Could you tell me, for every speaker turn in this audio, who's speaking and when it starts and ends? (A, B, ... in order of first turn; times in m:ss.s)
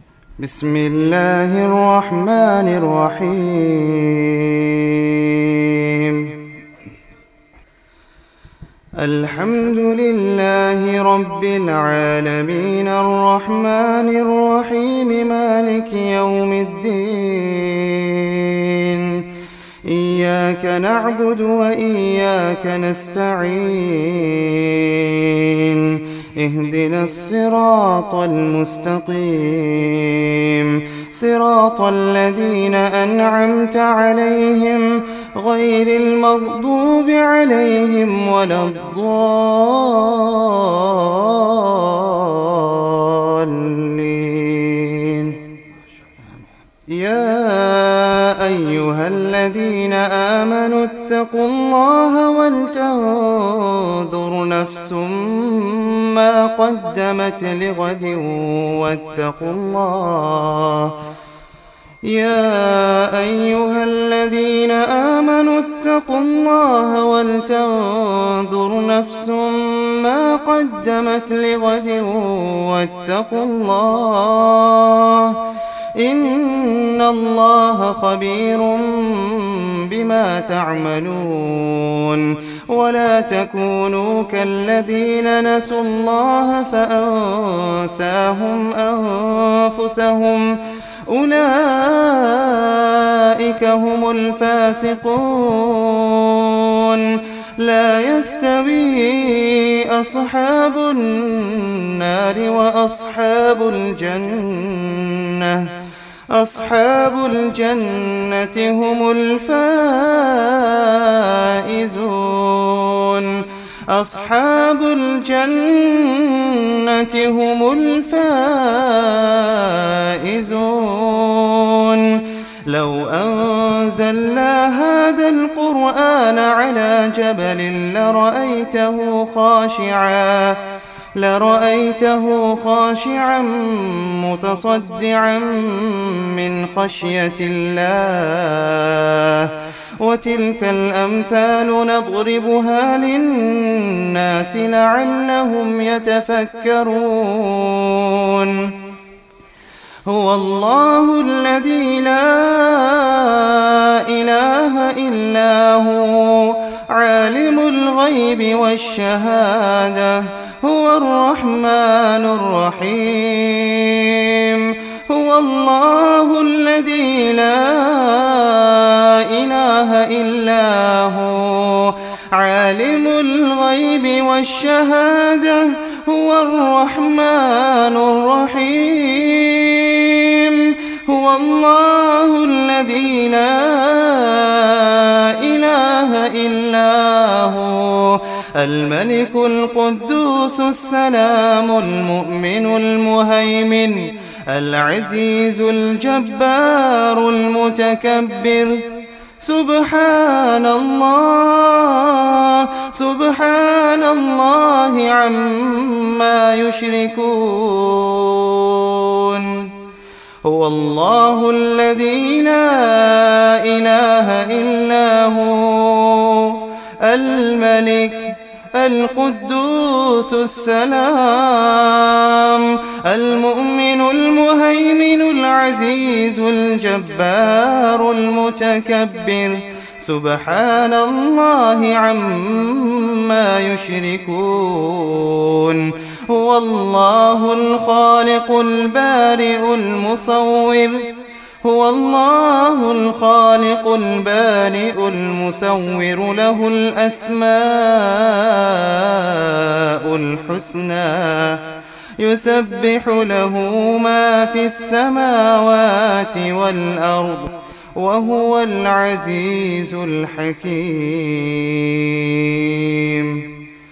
0:00.4-0:06.4 A
0:09.0-0:19.2 A
0:19.8-0:45.4 A
0:46.9-1:01.0 A
1:02.0-1:15.4 A
1:15.9-1:45.7 A
1:46.3-2:10.6 A
2:11.1-2:28.8 A
2:30.0-3:18.8 A
3:19.4-3:29.7 A
3:30.4-4:01.1 A
4:01.6-4:11.6 A
4:12.2-4:23.6 A